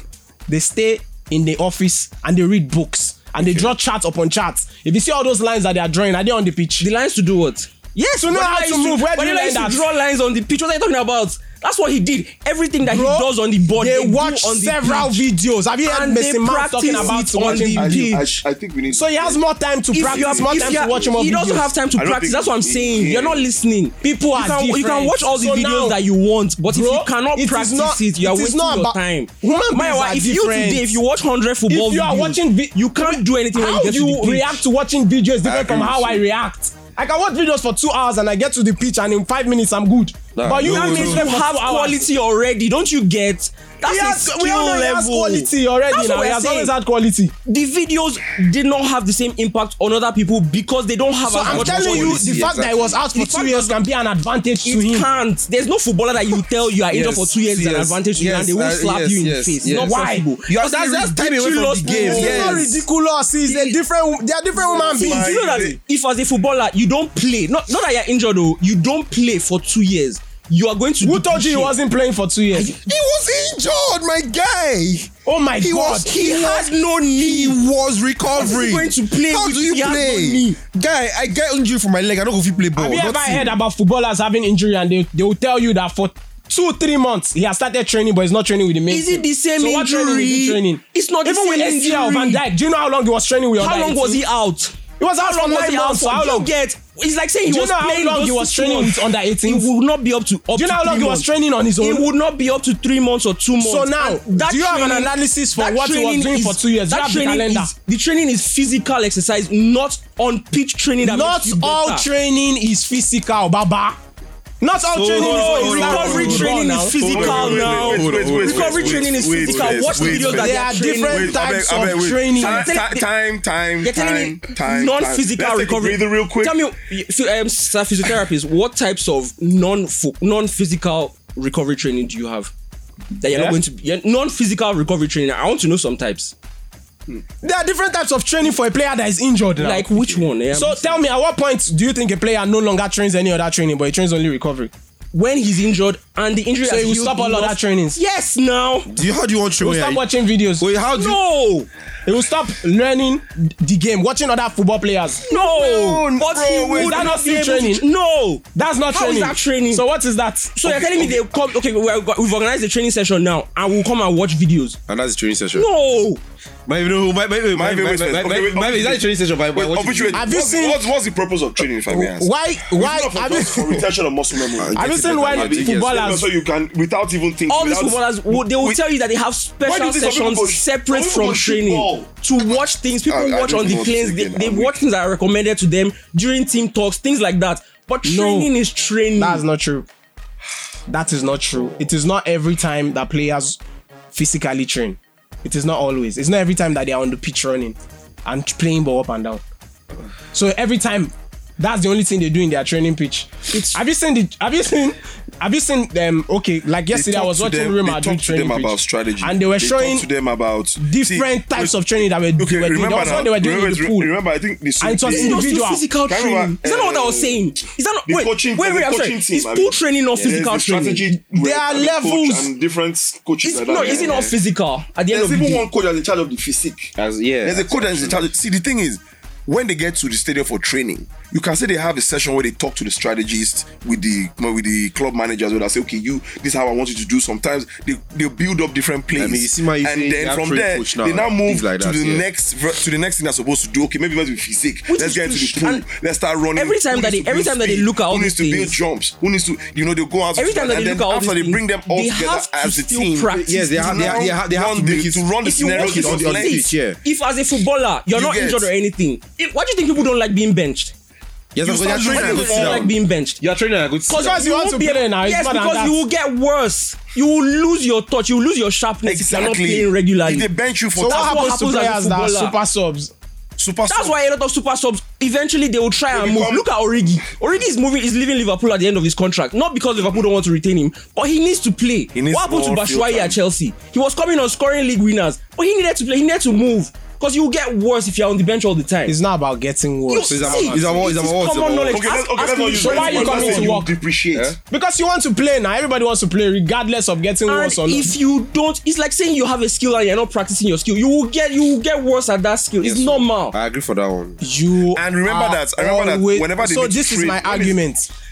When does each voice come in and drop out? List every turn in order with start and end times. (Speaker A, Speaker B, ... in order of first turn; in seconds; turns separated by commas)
Speaker A: 0.5-6.9, Speaker B: 3.4-3.7, Speaker C: 6.8-15.2, Speaker A: 8.2-9.9, Speaker A: 12.8-18.2, Speaker C: 15.8-18.4, Speaker D: 16.9-19.4, Speaker A: 18.9-21.7, Speaker C: 19.9-34.6, Speaker D: 20.0-21.1, Speaker D: 21.9-23.5, Speaker A: 24.0-26.0, Speaker A: 26.6-31.0, Speaker A: 31.7-42.1, Speaker B: 35.4-36.2, Speaker B: 40.4-41.3, Speaker C: 40.6-46.7, Speaker A: 43.8-47.3, Speaker C: 47.5-52.4, Speaker A: 51.2-55.1, Speaker B: 51.5-53.0, Speaker C: 53.1-53.8, Speaker C: 54.6-62.7, Speaker B: 56.9-62.8, Speaker A: 59.7-60.3, Speaker A: 61.8-65.4, Speaker C: 63.5-63.8, Speaker D: 64.6-65.8, Speaker C: 64.9-71.8, Speaker A: 71.0-72.8, Speaker B: 72.5-83.6, Speaker A: 75.3-76.3, Speaker C: 76.1-77.6, Speaker C: 78.3-80.6, Speaker A: 82.8-94.2, Speaker C: 88.9-92.4, Speaker C: 93.6-101.3, Speaker A: 95.0-96.5, Speaker A: 97.5-99.7, Speaker A: 100.5-102.1, Speaker C: 101.8-112.1, Speaker A: 103.6-107.7, Speaker A: 111.0-114.0, Speaker A: 114.6-117.3, Speaker B: 114.8-120.4, Speaker C: 115.1-121.4, Speaker D: 117.0-126.6, Speaker A: 120.2-122.7, Speaker C: 122.3-123.1, Speaker C: 123.8-132.5, Speaker C: 133.2-136.3, Speaker A: 133.3-133.6, Speaker A: 137.1-139.9, Speaker C: 139.6-141.0, Speaker A: 140.5-144.7, Speaker C: 145.1-148.9, Speaker A: 146.6-148.0, Speaker B: 148.9-150.1, Speaker A: 149.6-150.7, Speaker B: 150.6-151.2, Speaker C: 150.9-151.7, Speaker A: 152.1-155.2, Speaker C: 155.3-159.8, Speaker D: 155.3-157.2, Speaker A: 156.7-157.8, Speaker A: 158.6-160.7, Speaker C: 160.6-164.8, Speaker D: 160.7-161.3, Speaker B: 164.9-165.7, Speaker C: 165.5-166.2, Speaker B: 166.7-170.3, Speaker D: 167.5-178.8, Speaker A: 170.1-170.8, Speaker A: 171.9-173.9, Speaker B: 174.5-176.1, Speaker A: 174.8-176.3, Speaker C: 177.5-189.4, Speaker D: 179.6-182.1, Speaker D: 183.1-184.8, Speaker A: 188.0-188.5, Speaker A: 189.2-189.9, Speaker A: 190.9-193.6, Speaker A: 194.1-199.4, Speaker A: 200.3-210.1, Speaker D: 206.9-215.4, Speaker A: 210.8-214.1, Speaker A: 214.8-215.8, Speaker C: 215.1-221.1, Speaker D: 216.1-217.4, Speaker D: 218.1-224.3, Speaker A: 221.3-222.5, Speaker C: 223.4-225.7, Speaker B: 223.7-224.3, Speaker D: 225.1-256.7, Speaker B: 227.0-228.2, Speaker B: 239.2-242.2, Speaker C: 244.9-245.8, Speaker C: 246.6-248.8, Speaker C: 250.4-254.2, Speaker B: 253.3-257.0, Speaker C: 255.4-260.9, Speaker D: 258.1-258.7, Speaker B: 261.5-264.4, Speaker D: 261.6-262.9, Speaker C: 262.1-263.4, Speaker C: 264.1-270.5, Speaker A: 264.1-266.0, Speaker D: 269.1-271.4, Speaker A: 271.0-273.1, Speaker C: 271.0-272.6, Speaker D: 273.6-274.1, Speaker C: 273.9-289.2, Speaker D: 276.1-276.7, Speaker D: 282.1-283.4, Speaker A: 289.1-291.1, Speaker C: 290.1-293.8, Speaker B: 290.3-292.1, Speaker D: 291.9-294.6, Speaker A: 292.7-293.9, Speaker A: 294.7-298.1, Speaker C: 297.5-303.6, Speaker B: 302.8-304.4, Speaker A: 304.4-308.1, Speaker D: 304.9-307.8